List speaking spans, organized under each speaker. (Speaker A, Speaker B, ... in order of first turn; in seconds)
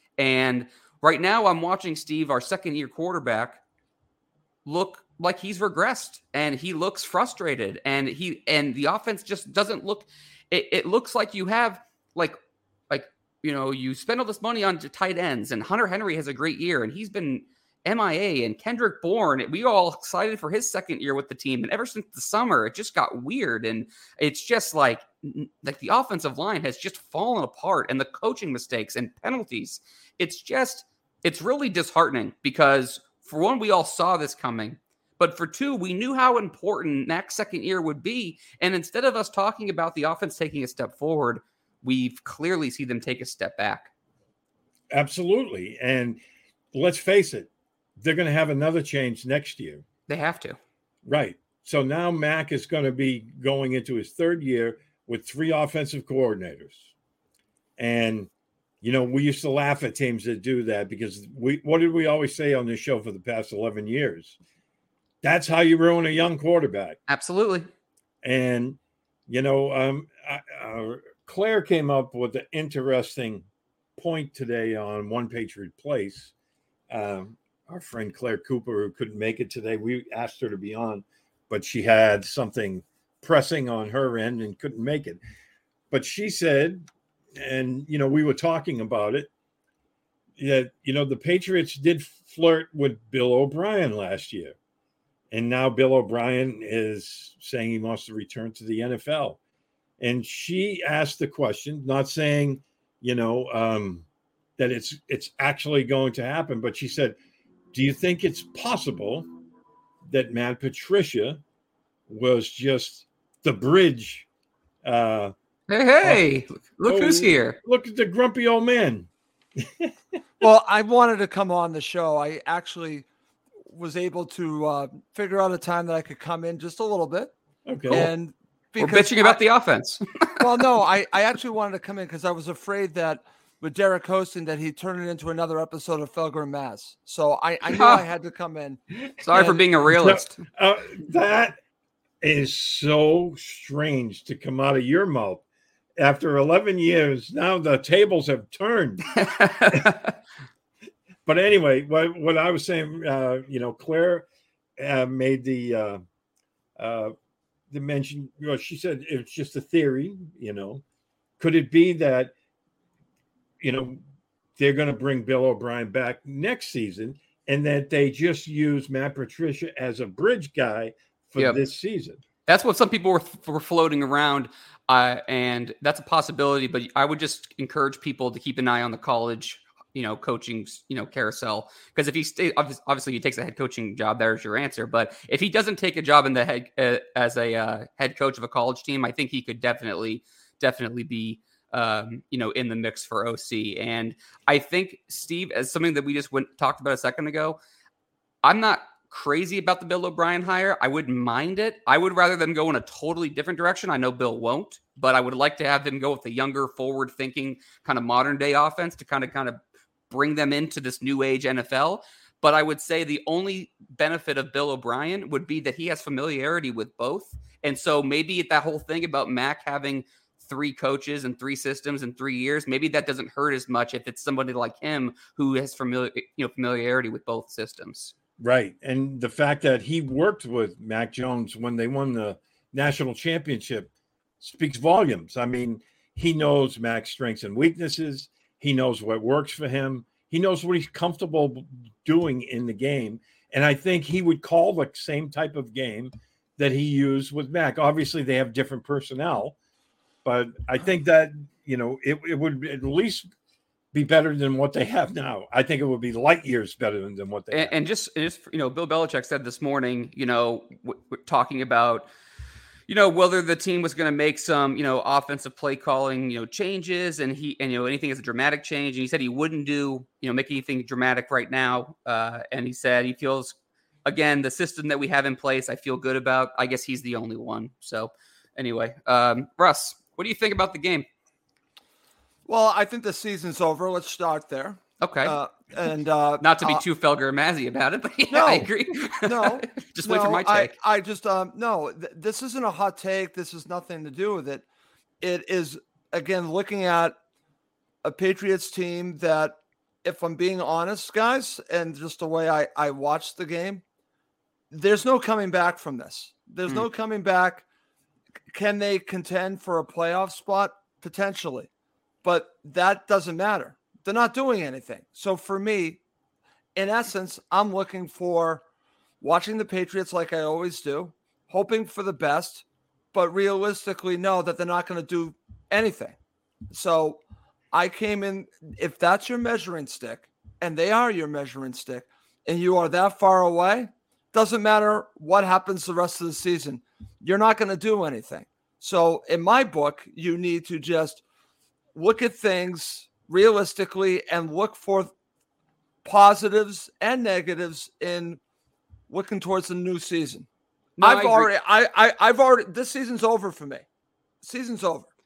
Speaker A: 0.2-3.6, 4.7-12.4, 12.9-43.9, 50.1-50.6, 67.1-67.7, 115.7-117.5, 128.8-130.4, 137.7-138.0, 139.2-140.4, 149.1-150.1, 172.5-197.6, 198.4-209.6, 210.1-228.1, 257.5-262.1, 262.9-273.5, 274.1-281.1, 285.0-285.4, 286.4-290.7, 351.0-351.5
Speaker B: 44.9-46.2, 46.7-49.8, 51.0-56.9, 57.8-58.3, 58.8-64.3, 65.2-67.0, 68.2-76.3, 76.9-85.2, 85.9-89.3, 90.4-94.5, 95.3-99.4, 100.0-104.0, 104.6-107.2, 107.7-109.2, 110.0-111.4, 112.1-114.2, 114.8-115.3, 116.8-119.9, 127.7-128.1, 139.8-141.6, 142.2-145.4, 146.0-149.0, 151.2-154.2, 154.8-156.0, 156.8-157.1, 157.7-160.8, 161.4-162.3, 163.6-164.0, 164.6-172.2, 228.4-249.6, 250.2-253.3, 253.9-257.8
Speaker C: 120.4-123.0, 123.7-127.3, 127.9-129.4, 130.4-138.8, 139.3-139.6, 282.4-286.8, 288.3-294.6, 295.2-297.1, 298.0-303.8, 304.7-307.6, 308.5-311.7, 312.2-316.0, 316.7-318.6, 319.2-326.1, 326.7-327.2, 327.7-341.2, 341.9-345.1, 346.0-348.4, 349.1-350.5, 351.0-353.8, 354.4-355.1